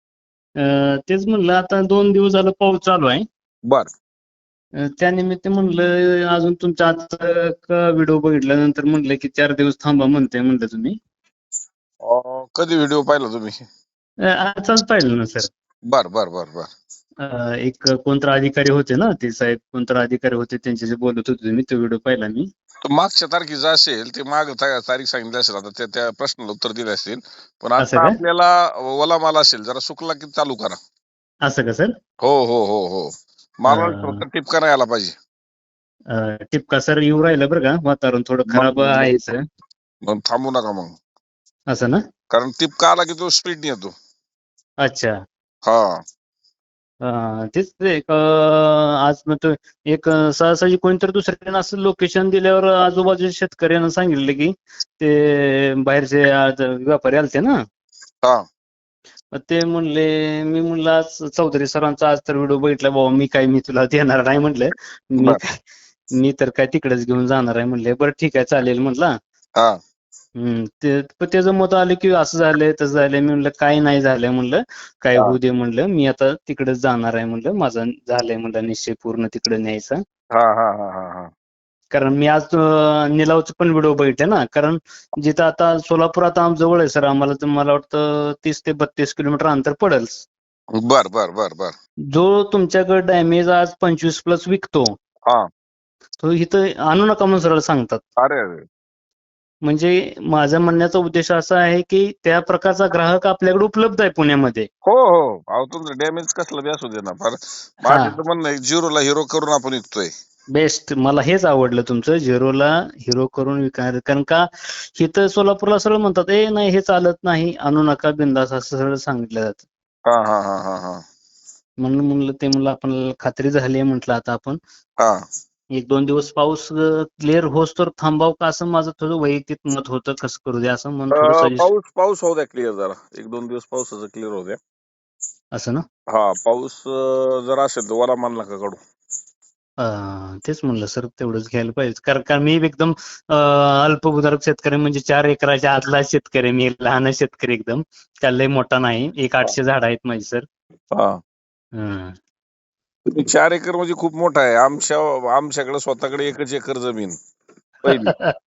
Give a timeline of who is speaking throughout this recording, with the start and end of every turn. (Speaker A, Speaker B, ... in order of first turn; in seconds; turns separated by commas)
Speaker A: 0.6-3.2, Speaker A: 4.8-11.0, Speaker B: 12.0-13.6, Speaker A: 14.3-15.5, Speaker B: 15.9-16.7, Speaker A: 17.2-22.5, Speaker B: 22.9-30.8, Speaker A: 27.8-28.2, Speaker A: 31.4-31.9, Speaker B: 32.2-35.1, Speaker A: 33.7-34.2, Speaker A: 36.1-39.4, Speaker B: 38.5-39.1, Speaker B: 40.1-41.0, Speaker A: 41.7-42.0, Speaker B: 42.3-43.9, Speaker A: 44.8-45.1, Speaker B: 45.7-46.0, Speaker A: 47.0-57.6, Speaker A: 59.3-65.4, Speaker A: 66.1-69.1, Speaker A: 70.4-80.0, Speaker B: 80.3-81.3, Speaker A: 81.9-90.2, Speaker B: 90.8-91.7, Speaker A: 92.1-95.0, Speaker A: 96.2-98.0, Speaker B: 98.2-98.6, Speaker A: 99.7-104.7, Speaker B: 104.8-110.1, Speaker A: 107.8-108.2, Speaker A: 110.5-119.6, Speaker B: 120.1-121.0, Speaker A: 121.8-124.6, Speaker A: 125.8-131.7, Speaker B: 131.1-134.6, Speaker A: 135.5-135.8, Speaker B: 136.1-138.8, Speaker A: 139.8-150.4, Speaker B: 150.9-151.2, Speaker A: 151.7-152.2, Speaker B: 153.1-157.2, Speaker B: 157.8-158.2, Speaker A: 157.8-158.3